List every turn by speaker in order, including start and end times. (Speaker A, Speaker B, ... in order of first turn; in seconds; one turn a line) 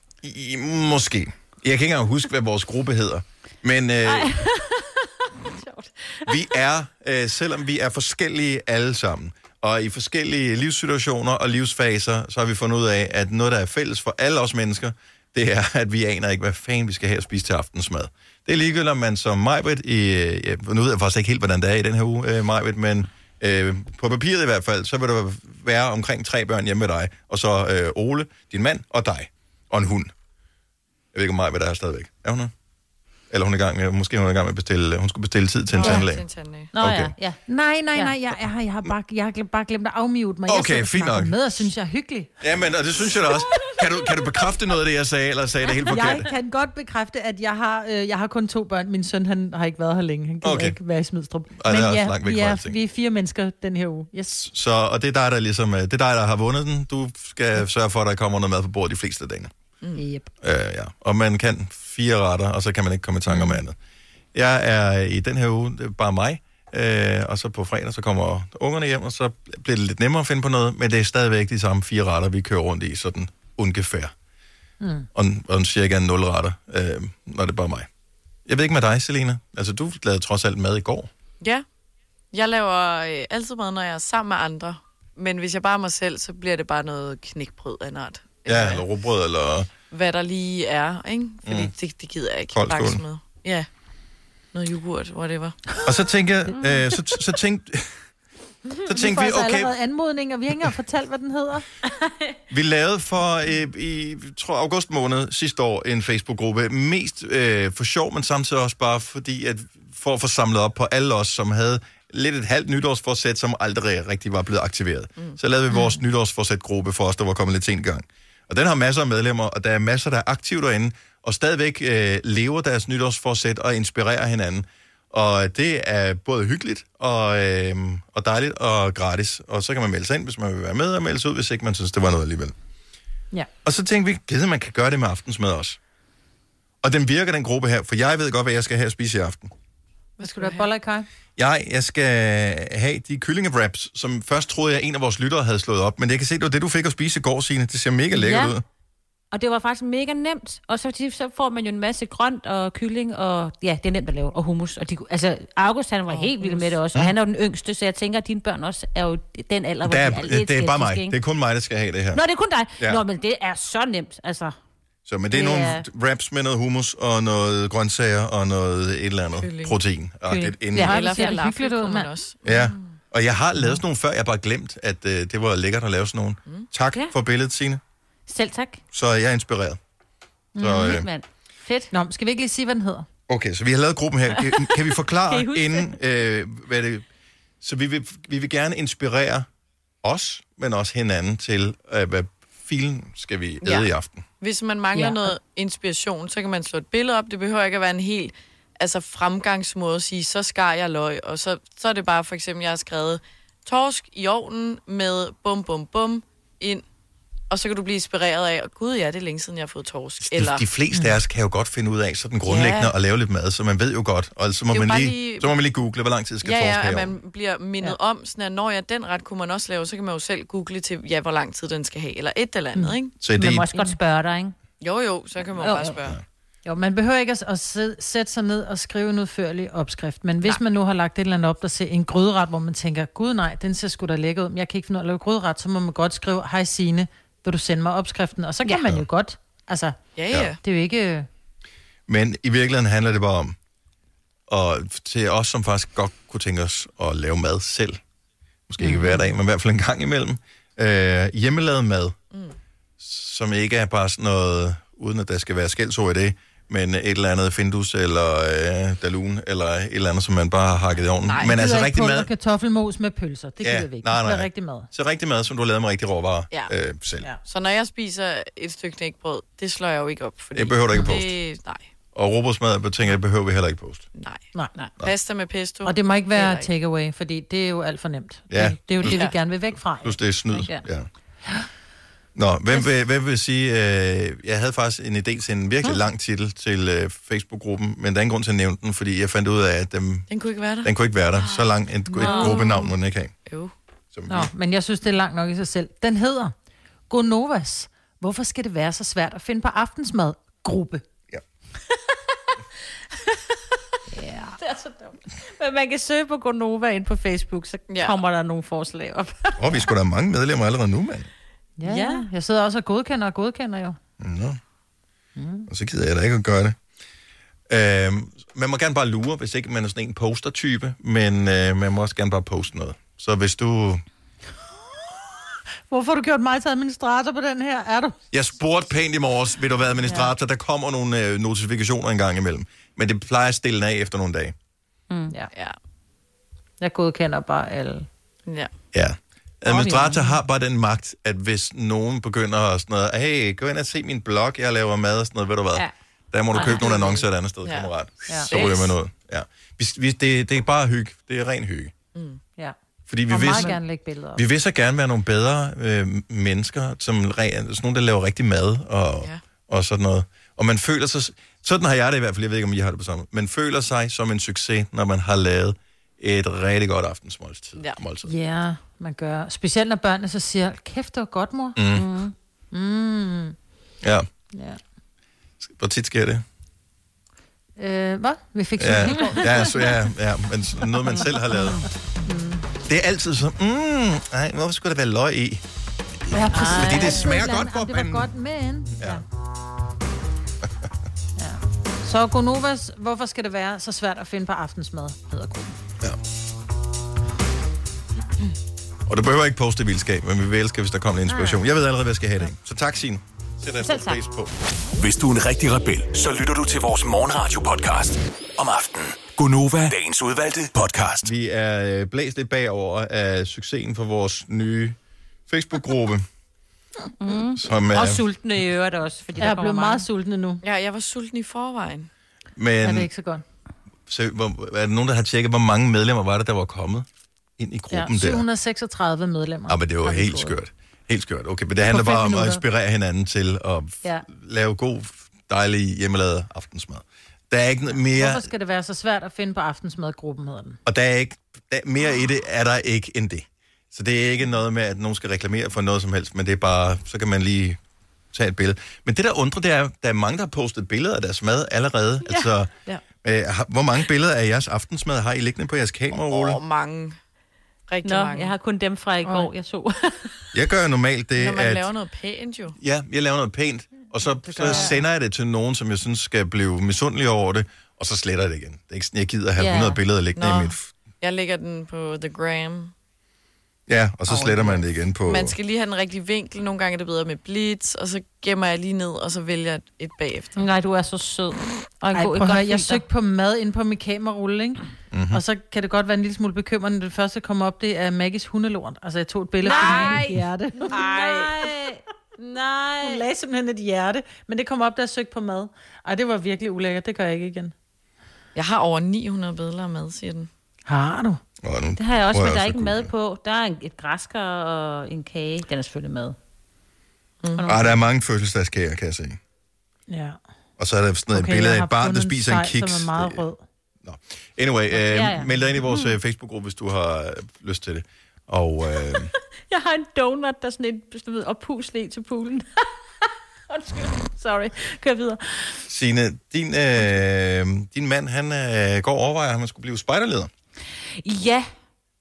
Speaker A: 0.2-4.4
Speaker B: 4.0-6.5
Speaker A: 6.2-30.1
Speaker A: 31.1-32.5
Speaker A: 33.3-36.2
Speaker C: 35.7-36.7
Speaker B: 36.7-37.4
Speaker A: 36.8-37.1
Speaker D: 37.5-42.3
Speaker A: 40.5-41.7
Speaker A: 42.4-46.3
Speaker D: 45.9-54.4
Speaker A: 50.4-50.8
Speaker A: 51.5-52.8
Speaker A: 54.3-59.5
Speaker D: 60.0-60.2
Speaker A: 60.4-63.8
Speaker A: 64.3-74.1
Speaker D: 74.8-75.1
Speaker A: 75.1-77.9
Speaker A: 78.5-81.1
Speaker C: 82.3-88.8
Speaker A: 88.5-89.7
Speaker C: 89.9-93.7
Speaker A: 91.4-91.7
Speaker A: 92.5-93.0
Speaker C: 94.5-95.6
Speaker A: 95.8-98.0
Speaker A: 98.8-99.7
Speaker D: 98.8-101.7
Speaker B: 102.0-102.3
Speaker A: 102.5-132.5
Speaker A: 133.6-135.8
Speaker A: 136.8-139.5
Speaker C: 140.2-140.7
Speaker D: 140.2-141.1
Speaker A: 141.4-148.6
Speaker B: 148.1-148.5
Speaker B: 149.3-161.2
Speaker C: 156.1-156.7
Speaker A: 159.8-162.2
Speaker B: 162.1-164.6
Speaker A: 165.1-171.0
Speaker B: 165.3-165.8
Speaker C: 169.4-169.8
Speaker B: 170.3-171.5
Speaker D: 170.7-172.1
Speaker C: 170.8-173.0
Speaker A: 172.4-177.8
Speaker B: 178.3-178.8
Speaker A: 178.9-179.8
Speaker D: 180.6-181.0
Speaker A: 180.6-181.1
Speaker B: 180.6-181.9
Speaker D: 181.9-183.1
Speaker A: 183.3-187.1
Speaker B: 185.2-186.0
Speaker A: 187.6-189.4
Speaker A: 190.0-194.2
Speaker C: 193.6-193.9
Speaker C: 194.4-206.8
Speaker C: 207.5-210.7
Speaker A: 210.2-217.1
Speaker C: 212.4-212.9
Speaker C: 214.7-215.5
Speaker C: 216.4-223.1
Speaker A: 223.2-223.7
Speaker B: 223.3-224.5
Speaker C: 224.8-226.2
Speaker B: 225.5-226.0
Speaker D: 226.6-240.0
Speaker C: 240.2-240.6
Speaker D: 240.6-241.3
Speaker A: 242.1-243.5
Speaker A: 244.5-248.0
Speaker A: 248.7-252.2
Speaker D: 248.8-249.2
Speaker A: 253.0-262.3
Speaker C: 261.3-261.6
Speaker D: 261.4-264.9
Speaker A: 263.6-267.2
Speaker C: 267.4-271.9
Speaker A: 270.5-271.3
Speaker A: 272.1-274.1
Speaker C: 274.1-274.5
Speaker C: 275.0-276.7
Speaker D: 275.8-280.2
Speaker A: 278.5-279.2
Speaker C: 279.0-279.3
Speaker A: 280.0-281.1
Speaker B: 280.5-280.8
Speaker A: 282.4-290.3
Speaker C: 290.3-291.6
Speaker A: 290.8-293.3
Speaker B: 292.1-292.7
Speaker D: 292.2-292.5
Speaker C: 293.5-293.7
Speaker A: 294.1-294.5
Speaker D: 294.3-296.5
Speaker D: 297.1-301.0
Speaker B: 301.9-302.6
Speaker B: 303.1-303.4
Speaker D: 304.1-304.6
Speaker B: 304.6-309.8
Speaker C: 307.9-308.2
Speaker A: 309.6-311.3
Speaker D: 311.8-314.0
Speaker B: 311.8-312.3
Speaker A: 314.2-314.6
Speaker D: 315.4-315.7
Speaker A: 315.7-316.8
Speaker A: 317.7-324.0
Speaker D: 325.9-328.2
Speaker A: 328.3-334.5
Speaker D: 330.1-330.3
Speaker B: 335.1-335.3
Speaker D: 336.8-338.1
Speaker A: 338.9-351.9
Speaker B: 339.7-340.2
Speaker C: 346.5-347.9
Speaker C: 348.5-348.9
Speaker C: 352.1-352.4
Speaker A: 353.1-353.8
Speaker D: 353.3-354.4
Speaker A: 354.3-368.3
Speaker D: 368.2-371.8
Speaker A: 371.8-372.2
Speaker B: 371.9-372.3
Speaker D: 372.7-373.6
Speaker D: 374.5-374.8
Speaker A: 375.6-376.4
Speaker D: 377.8-379.9
Speaker A: 378.8-381.9
Speaker B: 379.0-379.6
Speaker D: 381.1-382.6
Speaker A: 382.8-385.6
Speaker A: 386.3-388.3
Speaker D: 386.3-389.2
Speaker B: 386.5-387.5
Speaker A: 389.0-389.2
Speaker D: 391.4-395.8
Speaker A: 399.1-404.5
Speaker B: 401.3-401.6
Speaker B: 403.8-404.2
Speaker E: 405.0-411.3
Speaker A: 411.2-415.0
Speaker A: 415.5-416.2
Speaker B: 417.2-420.1
Speaker A: 417.5-418.2
Speaker D: 419.4-420.6
Speaker C: 420.6-422.1
Speaker A: 422.6-423.1
Speaker D: 422.8-423.4
Speaker A: 424.1-427.1
Speaker A: 427.6-428.4
Speaker D: 427.9-430.6
Speaker A: 429.7-438.5
Speaker D: 431.9-432.6
Speaker D: 438.1-440.8
Speaker A: 440.9-447.8
Speaker A: 448.3-452.7
Speaker A: 453.2-456.6
Speaker C: 456.1-457.2
Speaker C: 457.9-458.5
Speaker B: 458.0-460.4
Speaker D: 459.2-459.5
Speaker A: 460.5-461.9
Speaker C: 461.4-462.8
Speaker A: 462.8-470.9
Speaker D: 464.5-465.0
Speaker B: 464.6-465.0
Speaker B: 469.6-470.0
Speaker C: 470.4-472.9
Speaker A: 473.9-475.5
Speaker D: 474.3-474.8
Speaker C: 475.2-480.6
Speaker B: 480.5-483.0
Speaker D: 482.1-491.5
Speaker A: 485.1-485.4
Speaker B: 489.6-493.2
Speaker C: 489.7-490.3
Speaker D: 493.0-497.7
Speaker C: 498.5-500.5
Speaker D: 500.9-501.4
Speaker A: 501.6-503.1
Speaker B: 502.0-506.4
Speaker C: 507.4-507.7
Speaker B: 507.5-508.0
Speaker A: 507.7-509.4
Speaker D: 510.1-510.4
Speaker A: 510.8-513.4
Speaker D: 511.3-513.6
Speaker A: 514.0-519.3
Speaker B: 514.9-516.2
Speaker B: 519.1-525.8
Speaker A: 525.9-530.5
Speaker B: 531.2-531.7